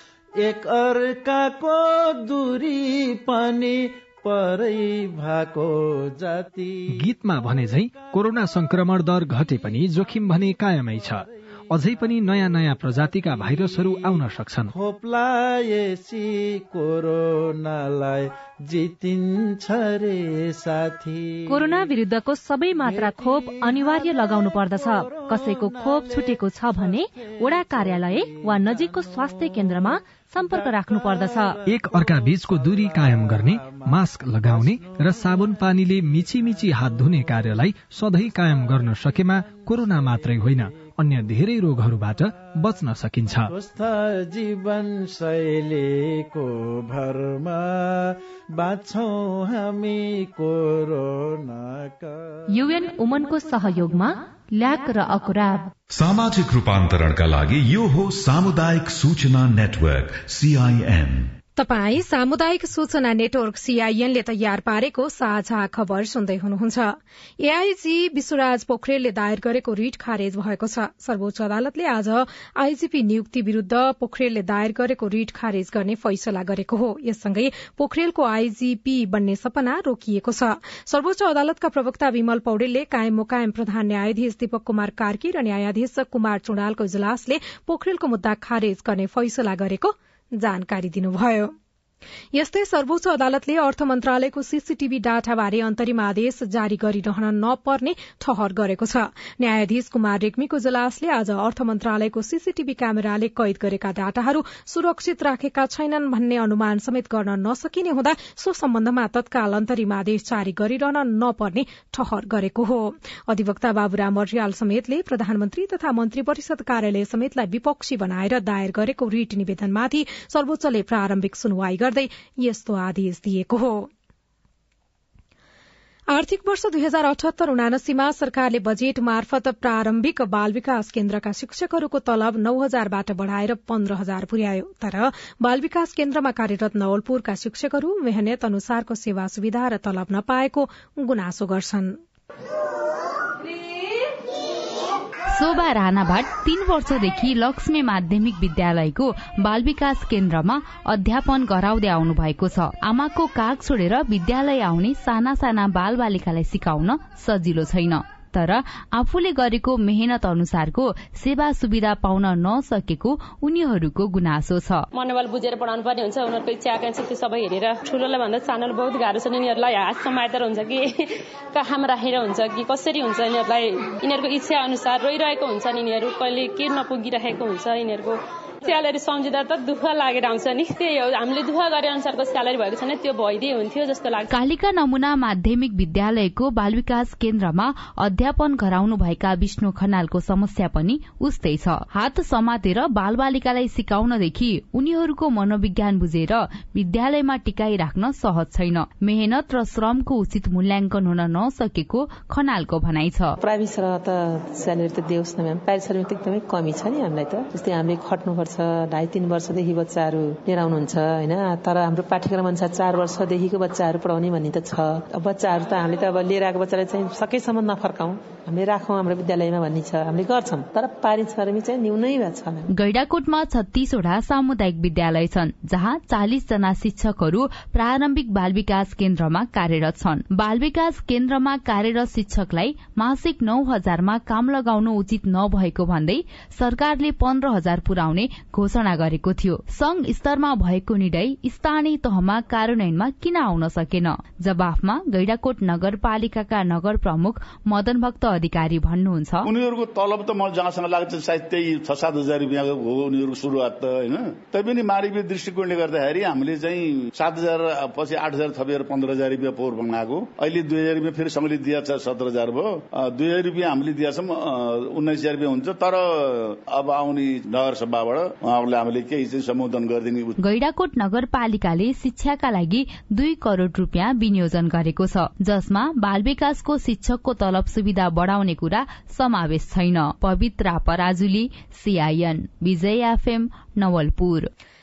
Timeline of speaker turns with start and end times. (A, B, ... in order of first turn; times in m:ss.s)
0:00.4-0:11.3 A
0:06.9-0:14.7 B
0:13.3-0:21.9 A
0:21.5-0:31.6 C
0:22.7-0:35.6 A
0:31.6-0:43.5 B
0:38.6-0:41.0 A
0:43.4-0:52.5 A
0:52.5-0:55.7 C
0:55.9-1:01.3 D
1:01.6-1:31.5 E
1:32.3-2:03.9 E
2:06.1-2:22.0 E
2:25.3-2:44.8 F
2:44.9-3:04.3 G
3:04.3-3:23.4 F
3:23.4-3:42.6 H
3:42.7-4:09.5 F
4:09.4-4:30.3 I
4:30.4-4:44.5 F